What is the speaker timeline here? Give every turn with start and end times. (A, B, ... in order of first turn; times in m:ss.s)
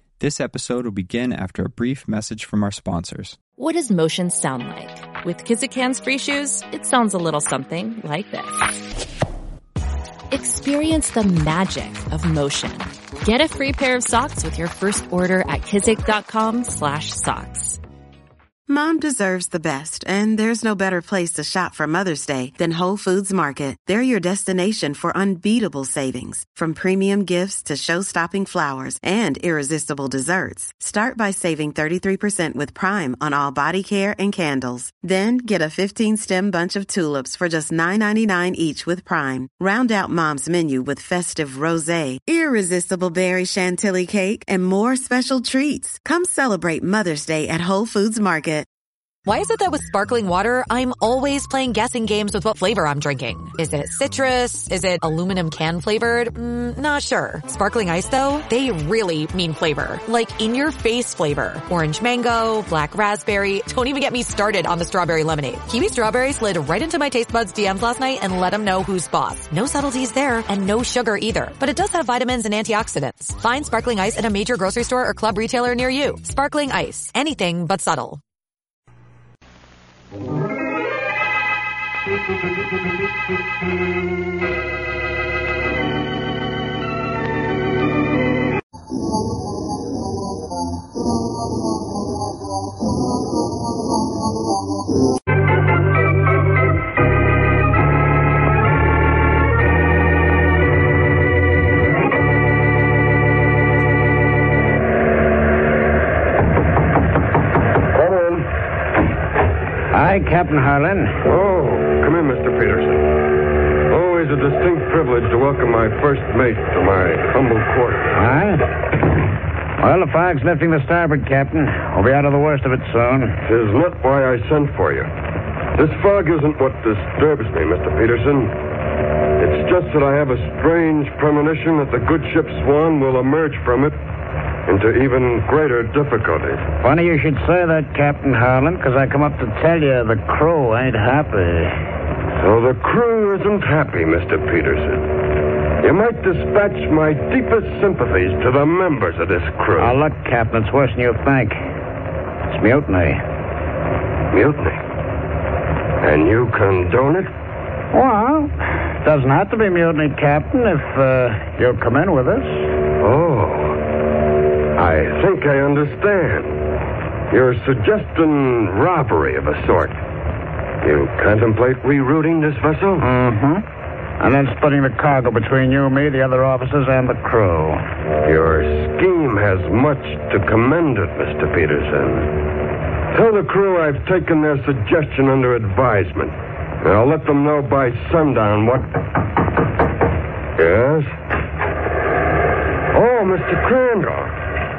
0:00.2-0:03.4 A
0:03.6-0:08.8 B
0:10.3-0:17.8 B
0:18.7-0:48.7 C
0:49.2-1:18.2 D
1:48.0-1:48.4 E
1:49.9-1:51.2 F
1:51.2-1:53.0 E
1:53.9-1:58.1 E
1:58.1-1:58.6 F
1:59.8-2:03.4 F
2:03.4-2:05.1 E
2:05.8-2:08.5 E
2:09.4-2:14.0 E
2:14.7-2:16.6 E
2:16.8-2:21.8 F
2:22.4-2:25.0 E
2:25.8-2:29.9 E
2:29.8-2:31.6 F
2:32.5-2:33.2 F
2:34.3-2:34.8 E
2:36.0-2:37.3 E
2:37.9-2:42.7 F
2:43.0-2:43.8 E
2:44.8-2:46.6 E
2:47.3-2:50.0 E
2:50.8-2:53.0 E
2:53.0-2:53.6 F
2:54.2-2:57.8 F
2:58.2-3:02.3 E
3:03.1-3:08.8 E
3:10.6-3:11.1 E
3:12.9-3:14.3 E